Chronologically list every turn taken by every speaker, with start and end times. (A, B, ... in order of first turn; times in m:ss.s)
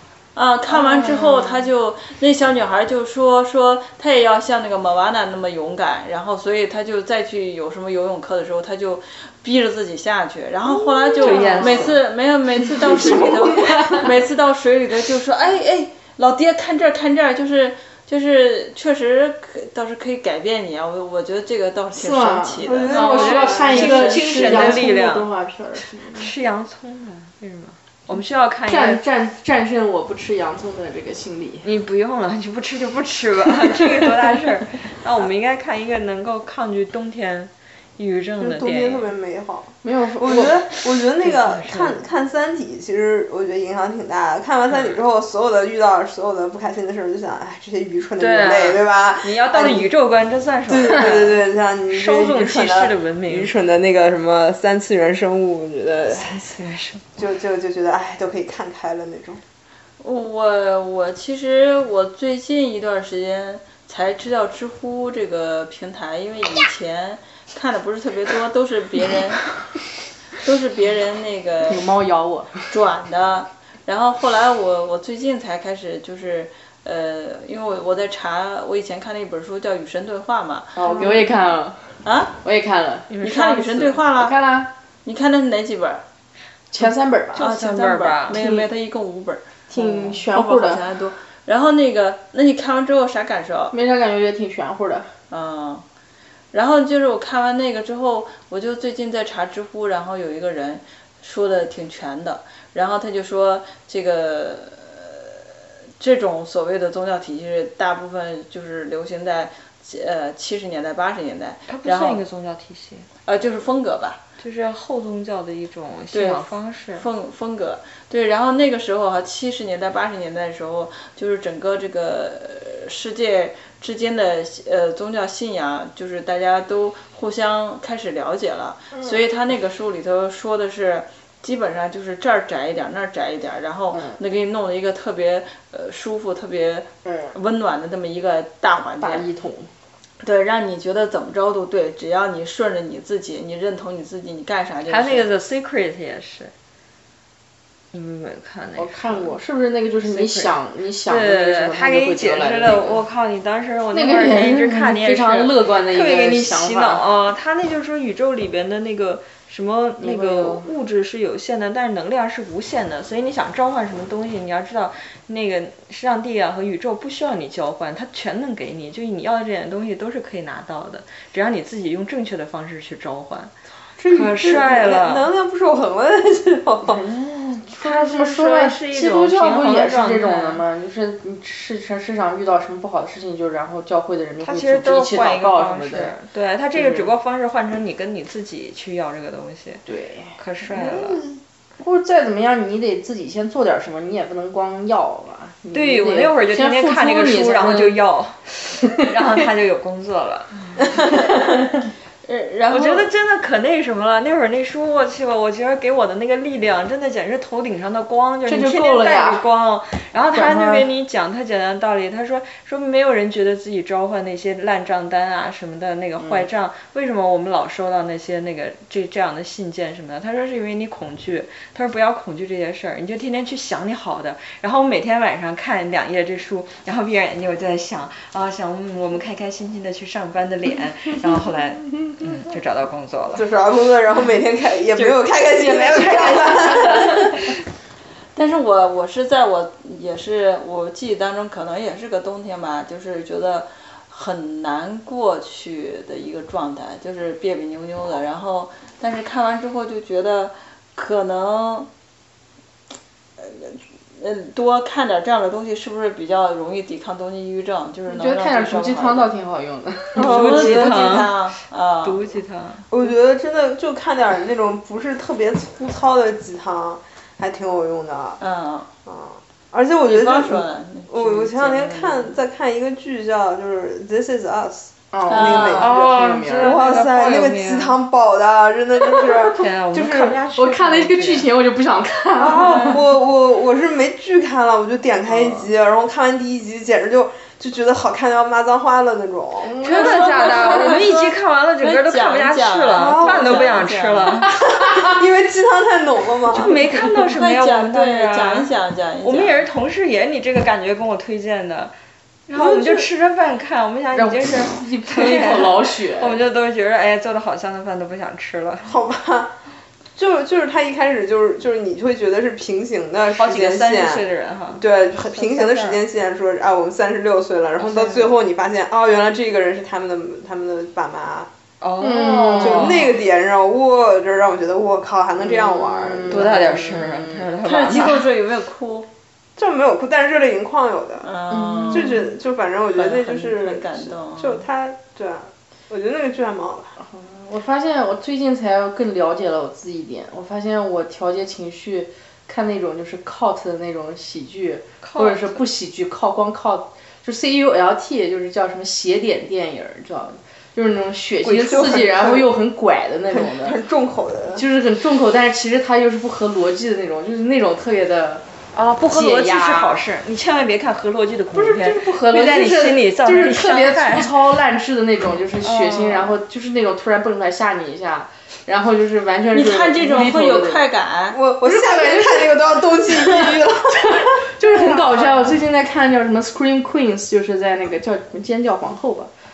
0:00.3-0:23.1 A
0:00.7-0:01.6 B
0:11.0-0:12.0 B
0:11.2-0:12.0 C
0:12.8-0:14.0 B
0:12.8-0:14.1 D
0:22.0-0:26.3 B
0:22.6-0:24.0 D
0:23.0-0:25.3 C
0:23.6-0:24.8 A
0:26.1-0:29.0 C
0:28.7-0:31.7 B
0:31.6-0:39.1 C
0:38.4-0:49.9 D
0:39.8-0:40.6 B
0:41.2-0:42.1 C
0:48.2-0:53.6 C
0:50.7-0:56.4 D
0:56.1-0:57.0 C
0:57.2-0:59.4 D
1:00.0-1:09.6 A
1:10.4-1:11.8 A
1:11.7-1:12.7 B
1:12.7-1:20.7 A
1:20.7-1:23.2 B
1:20.9-1:21.2 C
1:22.0-1:22.3 A
1:23.1-1:24.0 C
1:23.2-1:24.4 A
1:24.2-1:24.7 B
1:25.0-1:26.0 A
1:26.7-1:27.5 B
1:27.4-1:28.4 C
1:27.4-1:33.7 A
1:28.3-1:28.7 B
1:29.7-1:30.8 B
1:33.7-1:35.1 B
1:35.3-1:35.8 A
1:36.5-1:52.2 A
1:51.7-1:53.1 C
1:53.2-1:54.2 A
1:54.4-1:57.1 C
1:56.1-2:19.2 A
2:17.1-2:17.3 B
2:19.0-2:19.7 B
2:20.2-2:25.3 A
2:24.9-2:26.5 C
2:27.9-2:29.4 C
2:28.8-2:33.0 B
2:30.0-2:30.5 C
2:31.0-2:53.5 C
2:33.9-2:37.0 B
2:40.0-2:40.7 B
2:54.0-2:57.0 D
2:54.1-2:55.2 C
2:56.8-3:06.1 B
2:57.7-3:00.6 C
3:04.4-3:09.8 C
3:06.7-3:07.1 B
3:09.8-3:18.0 B
3:10.4-3:11.2 C
3:15.7-3:20.8 C
3:21.2-3:21.6 B
3:22.2-3:23.1 A
3:22.7-3:53.4 C
3:28.4-3:29.4 B
3:30.3-3:30.9 B
3:36.2-3:36.5 B
3:53.4-3:57.5 D
3:55.0-3:57.6 C
3:58.3-4:11.9 A
4:13.4-4:19.3 A
4:18.1-4:20.3 B
4:20.2-4:20.7 D
4:20.2-4:23.1 C
4:20.2-4:22.4 A
4:22.9-4:28.4 D
4:28.4-4:28.9 A
4:29.0-4:36.0 D
4:30.0-4:32.4 A
4:35.1-4:36.8 B
4:35.3-4:35.8 A
4:35.5-4:38.0 C
4:36.6-4:40.4 D
4:39.4-4:41.5 C
4:40.5-4:43.0 B
4:42.4-4:49.8 D
4:42.7-4:43.0 C
4:45.3-4:45.6 B
4:49.6-4:51.1 B
4:49.8-4:54.5 C
4:49.8-4:54.5 A
4:53.0-4:53.7 D
4:54.7-4:56.8 D
4:56.5-5:01.9 C
4:57.0-4:59.7 A
5:02.5-5:08.9 C
5:02.6-5:03.1 D
5:04.1-5:06.4 B
5:08.8-5:09.5 D
5:10.2-5:21.5 D
5:13.3-5:16.0 C
5:17.8-5:18.3 C
5:21.8-5:23.2 C
5:22.0-5:23.0 B
5:22.6-5:26.4 D
5:25.4-5:27.4 B
5:26.3-5:28.3 C
5:27.6-5:29.1 A
5:29.6-5:31.3 D
5:31.2-5:32.2 A
5:31.5-5:32.2 B
5:31.9-5:37.0 D
5:32.9-5:34.6 A
5:37.0-5:53.8 B
5:45.0-5:45.6 C
5:51.4-5:52.5 D
5:53.3-5:54.6 D
5:54.5-5:58.4 B
5:58.7-6:04.3 C
5:59.1-6:00.0 B
6:01.5-6:10.8 B
6:05.6-6:06.4 C
6:09.5-6:11.4 A
6:11.3-6:15.4 D
6:11.6-6:19.3 B